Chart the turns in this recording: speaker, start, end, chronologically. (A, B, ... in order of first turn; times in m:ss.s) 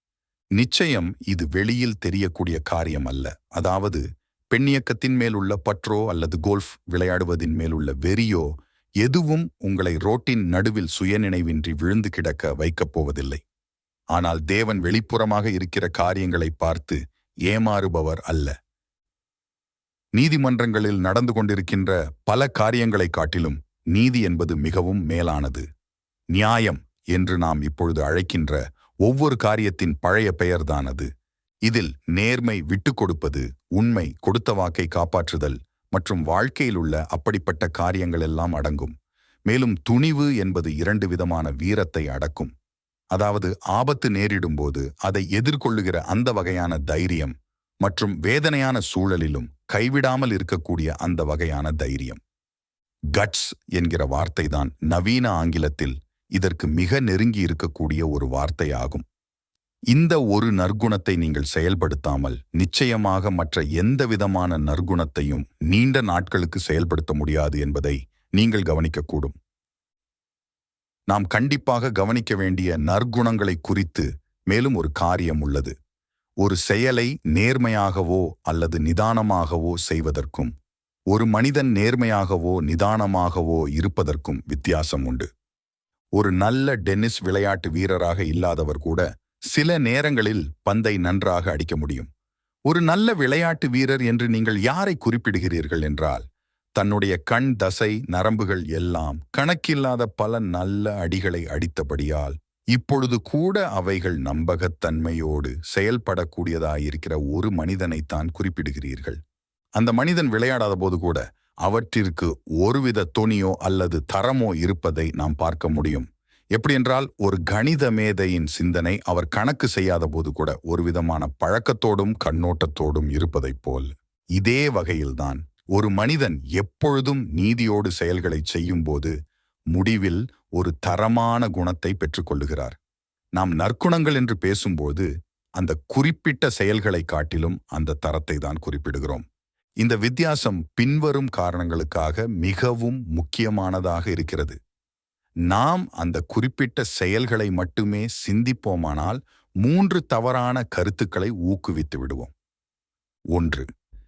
0:00.6-0:13.4 A
0:14.1-0:18.5 A
0:20.2-0:25.6 A
0:26.3-0:31.1 A
0:31.7-0:38.9 A
0:39.5-0:42.5 A
0:43.1-0:52.2 A
0:53.1-0:59.0 A
0:59.9-1:09.4 A
1:11.1-1:15.7 A
1:16.4-1:20.5 A
1:21.1-1:25.3 A
1:26.2-1:32.1 A
1:32.7-1:36.2 A
1:36.8-1:49.2 A
1:49.8-2:09.1 A
2:09.7-2:12.8 A
2:13.4-2:15.0 A
2:15.6-2:19.2 A
2:19.8-2:24.6 A
2:25.5-2:32.3 A
2:33.3-2:33.6 A